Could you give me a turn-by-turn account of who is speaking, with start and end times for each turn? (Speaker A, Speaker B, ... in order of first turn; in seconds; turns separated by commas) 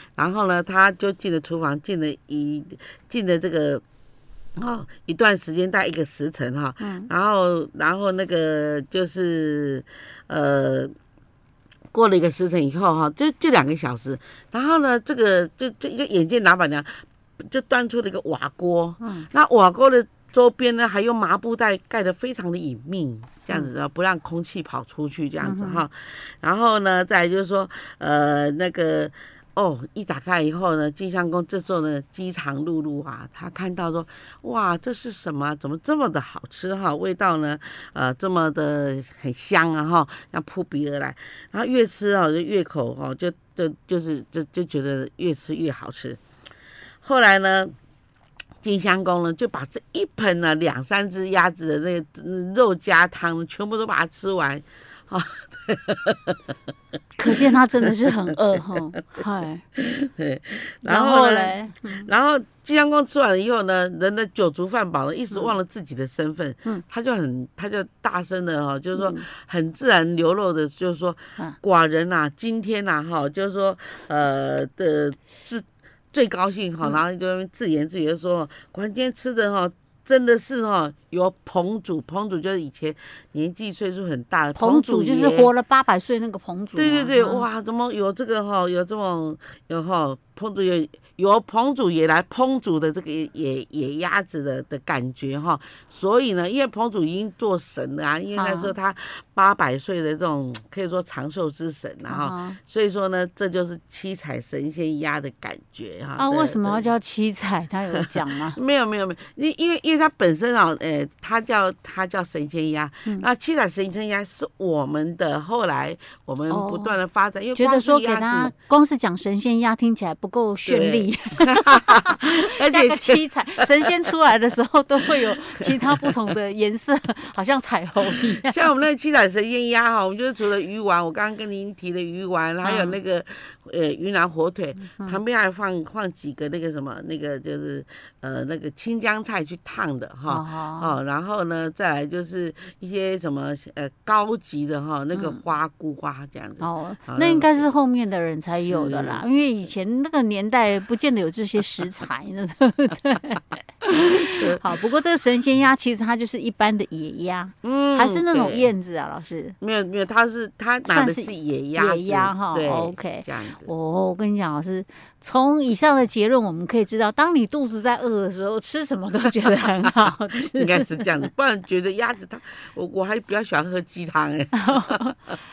Speaker A: 0.2-3.8, Speaker A: 4.6-10.9, Speaker B: 6.8-7.1, Speaker A: 11.9-46.2, Speaker B: 19.0-19.3, Speaker B: 25.4-25.8, Speaker A: 47.0-47.7, Speaker A: 48.6-56.4, Speaker B: 57.2-59.6, Speaker A: 57.2-57.9, Speaker A: 58.8-59.2, Speaker A: 59.8-85.5, Speaker B: 60.9-62.1, Speaker B: 69.0-69.3, Speaker B: 84.6-87.5, Speaker A: 86.8-106.9, Speaker B: 98.3-98.8, Speaker B: 102.1-102.6, Speaker B: 106.2-108.6, Speaker A: 107.9-118.5, Speaker B: 116.5-117.0, Speaker B: 117.6-128.7, Speaker A: 120.7-124.1, Speaker A: 125.5-126.2, Speaker A: 128.3-147.7, Speaker B: 132.6-133.0, Speaker B: 134.9-135.2, Speaker B: 140.3-140.9, Speaker B: 145.1-145.4, Speaker B: 146.6-159.6, Speaker A: 148.5-149.2, Speaker A: 153.9-154.6, Speaker A: 157.6-158.7, Speaker A: 159.6-163.7, Speaker B: 160.9-171.3, Speaker A: 169.6-175.2, Speaker B: 174.5-175.2